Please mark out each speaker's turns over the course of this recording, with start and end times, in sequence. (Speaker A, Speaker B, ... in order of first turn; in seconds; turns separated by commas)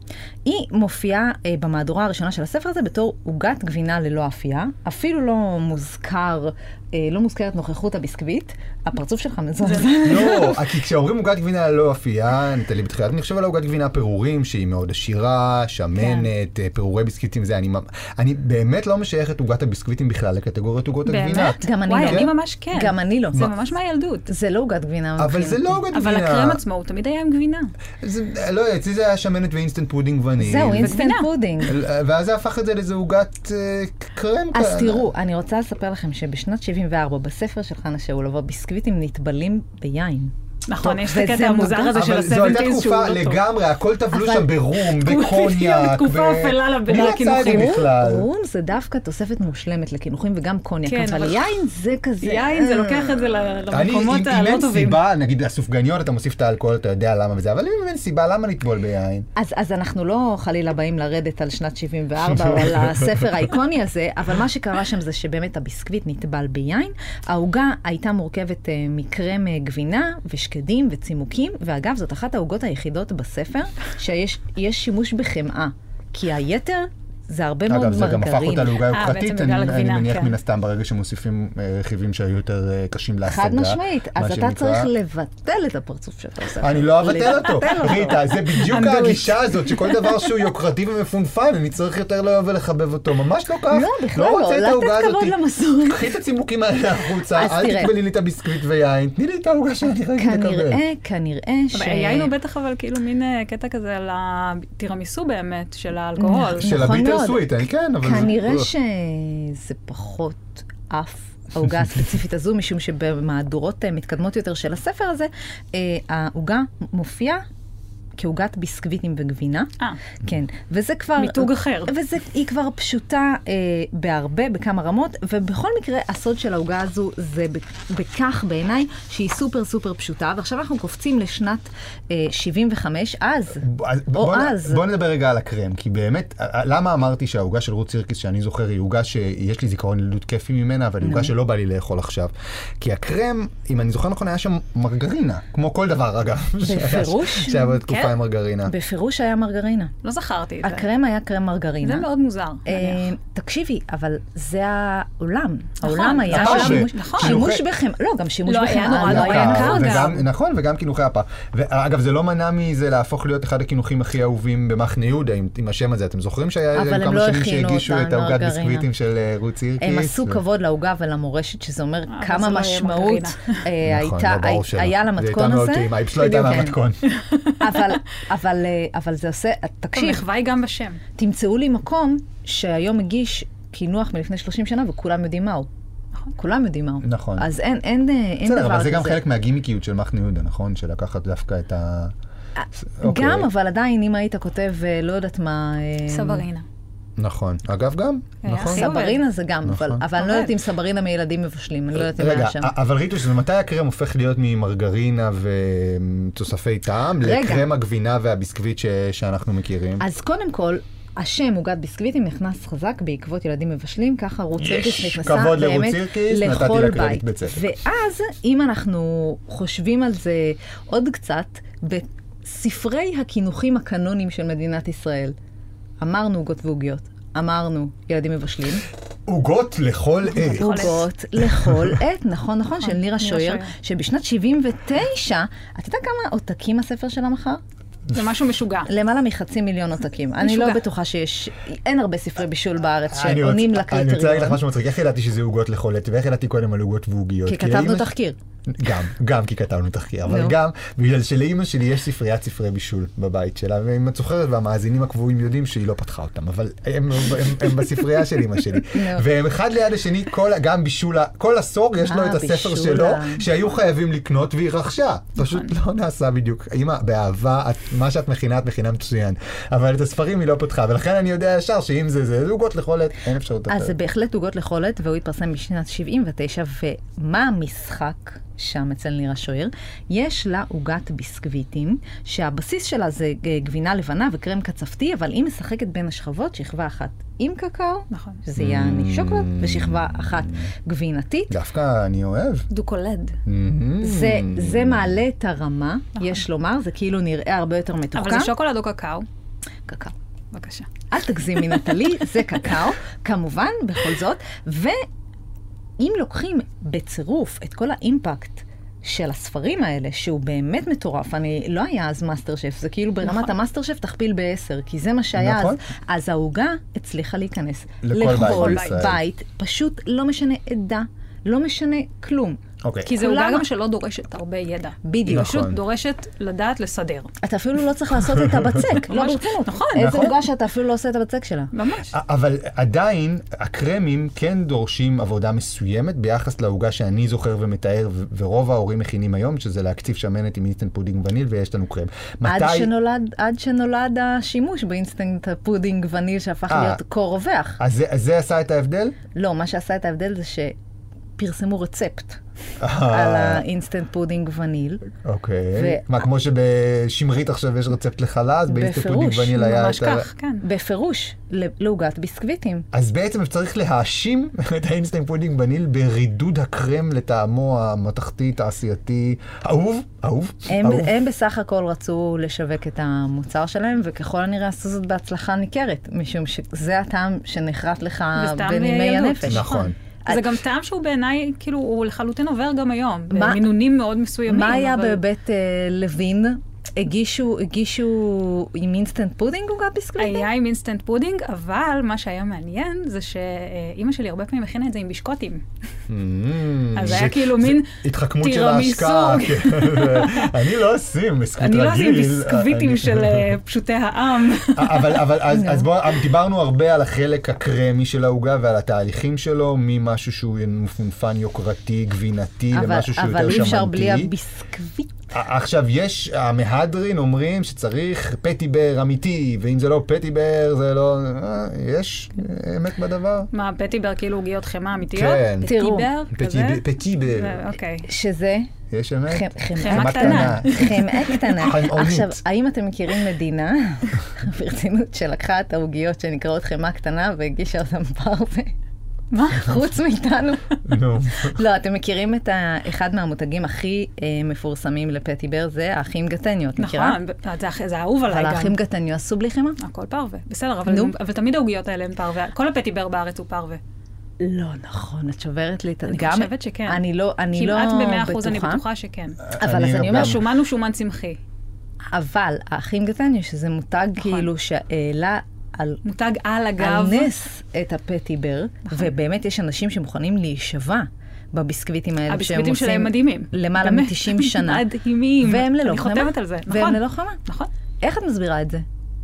Speaker A: 0.4-10.5, Speaker B: 9.6-10.6, Speaker C: 10.0-22.3, Speaker B: 21.1-24.3, Speaker A: 21.6-23.5, Speaker A: 24.3-25.8, Speaker C: 25.2-26.6, Speaker B: 25.9-27.7, Speaker C: 28.0-31.0, Speaker A: 30.4-31.8, Speaker B: 30.8-31.3, Speaker C: 31.6-35.1, Speaker A: 34.5-40.3, Speaker B: 40.7-43.4, Speaker A: 40.9-42.0, Speaker C: 41.9-48.3, Speaker A: 44.1-44.5, Speaker B: 44.8-47.8, Speaker A: 47.0-53.5, Speaker B: 50.9-51.6, Speaker B: 52.2-55.0, Speaker C: 53.7-59.2, Speaker A: 59.4-78.8, Speaker C: 62.2-63.3, Speaker C: 77.7-84.9, Speaker B: 78.9-80.3, Speaker A: 83.2-88.6, Speaker C: 86.6-100.8, Speaker B: 88.5-90.4, Speaker A: 93.7-96.1, Speaker A: 97.3-97.9, Speaker A: 100.2-102.3, Speaker B: 101.7-106.7, Speaker A: 106.2-117.4, Speaker C: 106.6-108.7, Speaker A: 118.2-119.7, Speaker A: 120.2-134.8, Speaker B: 121.2-121.9, Speaker C: 133.6-148.7, Speaker A: 141.0-141.3, Speaker A: 146.6-147.7, Speaker B: 147.8-148.1, Speaker A: 148.7-149.9, Speaker B: 150.0-150.9, Speaker A: 150.6-152.1, Speaker B: 151.8-153.1, Speaker A: 152.7-160.2, Speaker B: 155.8-157.4, Speaker C: 156.3-157.6, Speaker B: 158.4-160.1, Speaker C: 159.0-170.4, Speaker A: 166.7-168.9, Speaker A: 169.8-176.8, Speaker B: 172.1-173.6, Speaker C: 173.8-177.0, Speaker B: 177.1-177.9, Speaker A: 177.6-180.2, Speaker B: 179.9-181.0, Speaker A: 181.2-185.7, Speaker A: 186.3-189.2, Speaker C: 187.0-187.4, Speaker C: 188.4-192.1, Speaker A: 192.6-196.4, Speaker C: 192.9-193.5, Speaker B: 196.1-196.7, Speaker C: 197.2-198.8, Speaker B: 198.4-199.2, Speaker A: 198.7-202.7, Speaker C: 199.6-200.0, Speaker B: 200.1-200.6, Speaker C: 201.9-210.0, Speaker A: 207.2-207.6, Speaker A: 210.0-225.3, Speaker C: 214.6-217.7, Speaker A: 226.0-228.8, Speaker C: 229.3-232.0, Speaker B: 230.3-231.1, Speaker A: 230.6-237.6, Speaker B: 232.8-233.7, Speaker B: 238.1-238.9, Speaker A: 238.8-244.6, Speaker B: 240.4-240.8, Speaker C: 243.1-248.1, Speaker A: 247.4-248.4, Speaker C: 248.7-273.9, Speaker A: 250.3-250.6, Speaker A: 258.9-259.2, Speaker A: 262.0-263.5, Speaker B: 265.4-265.7, Speaker A: 273.7-291.5, Speaker B: 288.1-288.4, Speaker C: 288.6-290.7, Speaker C: 291.5-292.7, Speaker B: 292.7-293.4, Speaker C: 293.4-295.2, Speaker A: 294.0-298.5, Speaker B: 298.1-299.3, Speaker A: 299.9-300.1, Speaker B: 300.5-300.9, Speaker A: 301.1-305.0, Speaker A: 306.0-322.6, Speaker B: 313.2-313.5, Speaker C: 315.4-315.8, Speaker C: 318.0-319.2, Speaker B: 318.4-319.0, Speaker C: 322.8-323.1, Speaker B: 323.0-327.3, Speaker A: 323.1-323.6, Speaker A: 325.0-325.5, Speaker C: 325.3-325.8, Speaker A: 327.4-331.7, Speaker C: 328.4-328.9, Speaker B: 329.1-330.2, Speaker C: 329.9-330.3, Speaker B: 331.7-332.1, Speaker C: 332.1-342.9, Speaker A: 342.4-347.8, Speaker C: 346.7-347.0, Speaker C: 347.8-349.2, Speaker A: 349.3-350.8, Speaker A: 351.4-352.4, Speaker C: 352.8-353.6, Speaker A: 353.0-355.1, Speaker C: 355.2-360.3, Speaker A: 355.7-356.0, Speaker A: 358.7-359.6, Speaker B: 359.6-360.6, Speaker A: 360.6-362.9, Speaker C: 362.9-371.1, Speaker A: 370.7-379.7, Speaker B: 378.4-385.2, Speaker C: 379.5-379.9, Speaker A: 383.3-383.6, Speaker A: 384.5-390.5, Speaker B: 390.2-395.6, Speaker C: 396.1-403.5, Speaker B: 396.9-400.5, Speaker B: 401.6-405.2, Speaker C: 404.7-414.3, Speaker A: 405.5-405.9, Speaker A: 412.7-415.1, Speaker C: 415.3-423.5, Speaker B: 423.5-428.1, Speaker C: 425.1-425.7, Speaker A: 425.6-426.1, Speaker C: 426.3-427.7, Speaker A: 428.0-428.7, Speaker C: 428.9-432.4, Speaker A: 429.3-438.7, Speaker B: 429.8-431.5, Speaker B: 439.3-439.8, Speaker A: 439.5-440.8, Speaker C: 440.9-441.6, Speaker A: 441.3-447.2, Speaker B: 446.8-448.8, Speaker A: 448.3-449.8, Speaker B: 449.8-453.8, Speaker A: 450.9-451.1, Speaker A: 454.4-458.8, Speaker B: 456.1-457.0, Speaker B: 457.5-461.4, Speaker C: 459.4-460.4, Speaker A: 459.5-460.4, Speaker A: 462.1-466.0, Speaker B: 464.2-464.5, Speaker B: 466.0-467.3, Speaker A: 466.8-474.8, Speaker B: 472.3-477.7, Speaker A: 475.4-477.4, Speaker A: 478.0-478.8